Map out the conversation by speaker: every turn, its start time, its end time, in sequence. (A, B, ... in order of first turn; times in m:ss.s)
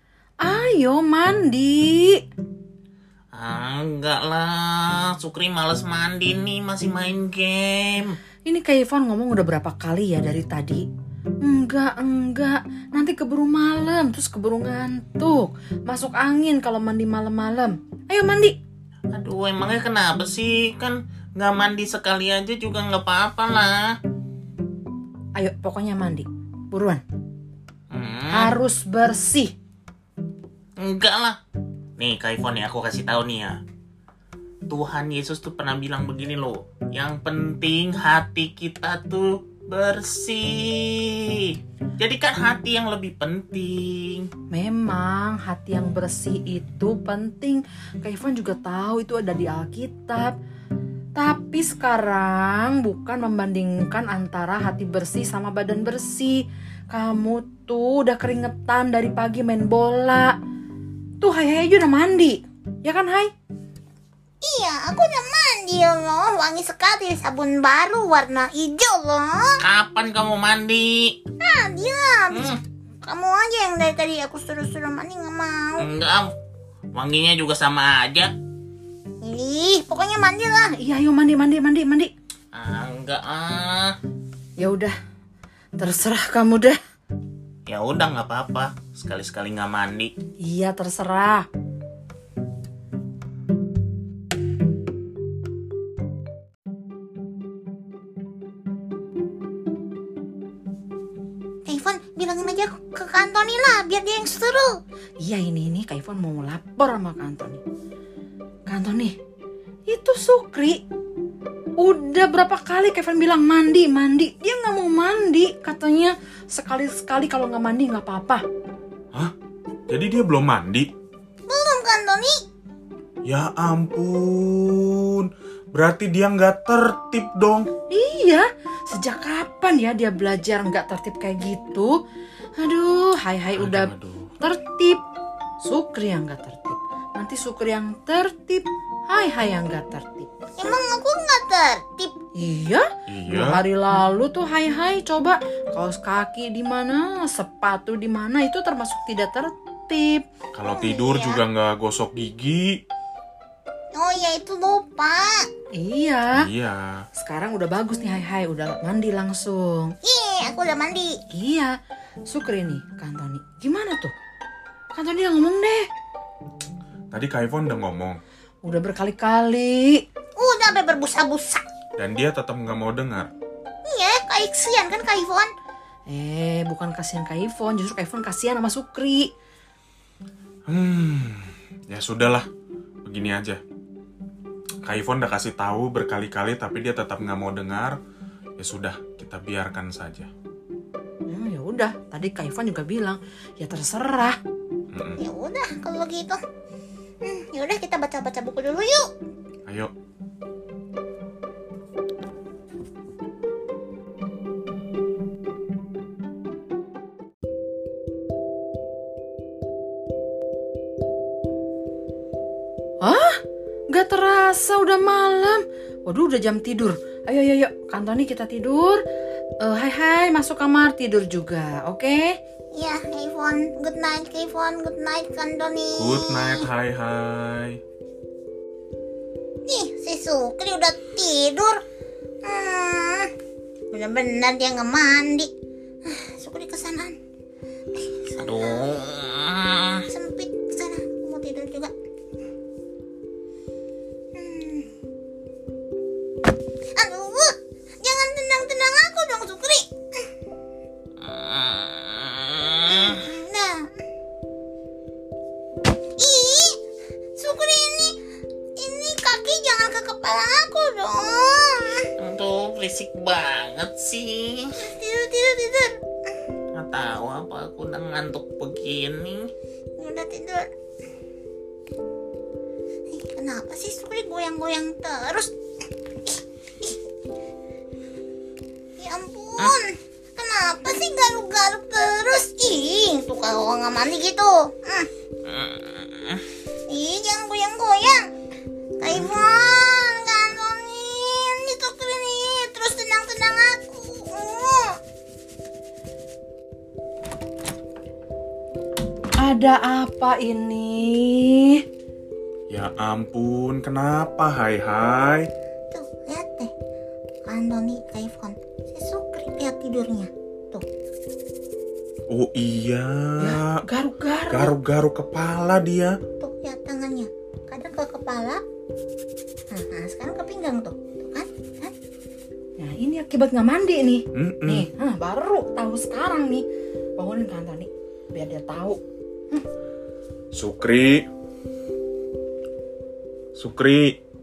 0:00.4-0:02.2 A
0:03.3-0:08.2 B
0:08.5-0:10.8 A
0:11.4-0:18.6 A
0:19.1-0:24.0 B
0:25.4-0:27.0 A
0:27.9-0:28.6 B
0:28.3-0:29.5 A
0:30.8-0:31.4 B
0:32.0-0:33.6 B
0:34.7-0:44.3 B
0:44.5-0:50.4 A
0:51.2-1:00.4 A
1:01.2-1:03.3 A
1:04.4-1:09.5 C
1:09.6-1:11.2 B
1:11.4-1:15.9 C
1:12.3-1:12.6 B
1:15.8-1:16.3 B
1:16.9-1:18.3 B
1:19.2-1:20.7 C
1:20.8-1:22.1 A
1:22.5-1:24.0 B
1:24.6-1:24.9 A
1:25.8-1:26.8 A
1:27.7-1:30.1 B
1:30.4-1:31.5 A
1:41.7-1:44.7 C
1:45.2-1:47.6 A
1:48.7-1:49.2 A
1:49.9-1:50.8 A
1:51.8-1:58.4 A
1:59.9-2:00.9 D
2:01.5-2:02.4 C
2:03.3-2:07.7 D
2:07.9-2:11.9 A
2:12.6-2:15.0 A
2:13.6-2:14.3 D
2:15.6-2:20.3 A
2:20.6-2:22.2 C
2:22.4-2:30.3 A
2:23.1-2:23.6 D
2:30.5-2:32.8 D
2:30.7-2:31.4 C
2:34.0-2:35.5 C
2:35.7-2:36.5 A
2:36.4-2:37.1 D
2:37.2-2:40.0 A
2:40.0-2:41.2 C
2:41.3-2:41.7 A
2:42.3-2:44.1 A
2:44.9-2:45.9 A
2:47.1-2:48.2 D
2:48.6-2:50.0 A
2:50.4-2:51.6 C
2:52.0-2:53.3 D
2:53.9-2:55.5 C
2:56.1-2:59.3 A
3:00.7-3:02.5 D
3:03.0-3:03.6 D
3:04.8-3:08.0 D
3:08.6-3:10.3 D
3:11.3-3:14.4 A
3:14.9-3:15.2 D
3:15.2-3:16.4 C
3:17.2-3:19.0 C
3:33.0-3:33.4 A
3:33.9-3:39.0 A
3:39.6-3:42.4 A
3:42.8-3:46.6 C
3:46.0-3:47.8 D
3:49.7-3:51.8 C
3:52.4-3:53.3 C
3:53.9-3:55.5 C
3:56.1-3:57.1 C
3:58.0-3:58.8 C
3:58.4-4:00.1 B
4:00.1-4:01.9 C
4:04.4-4:04.9 C
4:07.0-4:09.9 C
4:11.2-4:13.2 B
4:12.9-4:13.8 C
4:16.2-4:16.8 C
4:17.4-4:18.2 C
4:18.8-4:22.1 C
4:22.2-4:24.8 B
4:24.8-4:26.0 C
4:26.8-4:29.5 B
4:30.0-4:30.7 C
4:33.1-4:35.5 C
4:39.0-4:45.1 C
4:45.5-4:46.4 B
4:46.9-4:48.2 C
4:49.0-4:54.9 C
4:59.4-5:01.8 A
5:02.7-5:05.5 D
5:05.9-5:06.7 C
5:07.5-5:10.8 C
5:12.3-5:13.8 D
5:13.4-5:14.7 A
5:14.5-5:16.1 D
5:16.4-5:18.6 C
5:19.7-5:21.9 C
5:22.8-5:26.6 A
5:24.3-5:24.9 D
5:27.2-5:29.0 A
5:30.6-5:31.2 D
5:33.6-5:34.1 D